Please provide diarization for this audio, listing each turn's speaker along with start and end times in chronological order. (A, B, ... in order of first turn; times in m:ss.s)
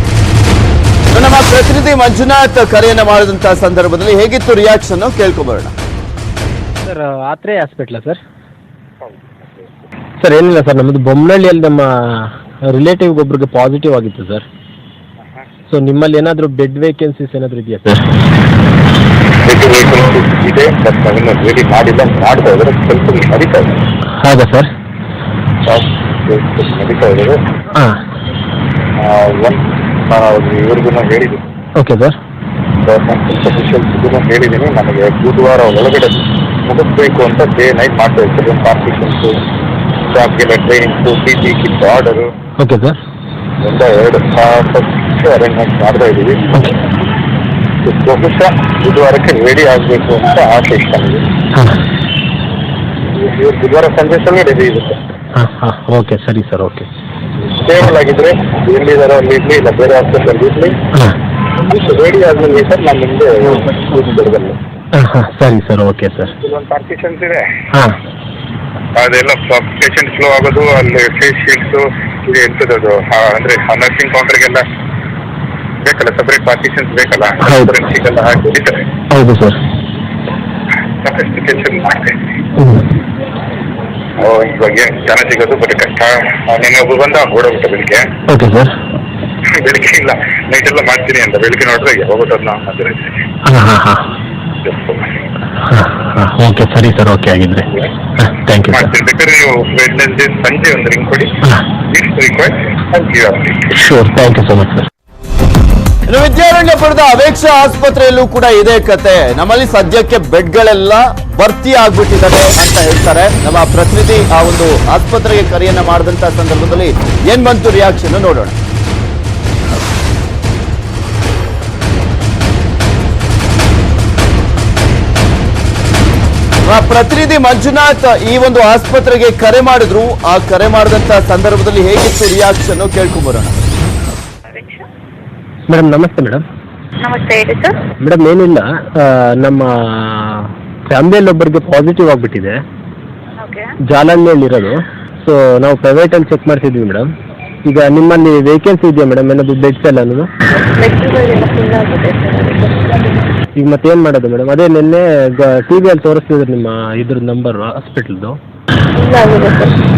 0:01.1-0:05.7 A
0:06.8-0:08.2 B
0:09.0-0:09.7 C
0:10.2-0:14.4 B
0:15.7-0:18.1 B
0:19.4-0:23.7 C
0:24.2-0:24.7 B
0:25.6-0:27.4 C
0:29.0-0:31.5 C
0:31.8-0:32.2 B
0:32.8-0:39.4 C
0:40.1-0:42.3 C
0:42.6-0:43.0 B
0:43.6-0:46.6 C
0:47.8-0:51.2 C
0:51.5-0:51.8 B
0:53.1-0:55.0 C
0:55.3-0:56.9 B
0:57.6-1:00.8 C
1:01.6-1:04.6 C
1:04.9-1:06.3 B
1:06.3-1:07.4 C
1:07.7-1:08.0 B
1:09.0-1:14.6 C
1:15.8-1:18.8 C
1:17.4-1:17.7 B
1:19.1-1:19.6 B
1:21.0-1:22.1 C
1:22.6-1:22.9 B
1:24.2-1:28.1 C
1:28.3-1:28.7 B
1:29.5-1:33.1 C
1:33.4-1:34.1 B
1:34.5-1:35.2 C
1:35.6-1:38.9 B
1:38.7-1:41.3 C
1:41.9-1:43.7 C
1:43.7-1:44.9 B
1:46.1-1:58.6 A
2:06.7-2:13.6 A
2:14.4-2:14.8 D
2:15.7-2:16.4 B
2:17.0-2:17.7 D
2:18.0-2:22.6 B
2:23.4-2:23.7 D
2:23.9-2:27.1 B
2:27.6-2:30.3 B
2:30.8-2:33.1 D
2:33.6-2:38.4 B
2:39.0-2:39.8 D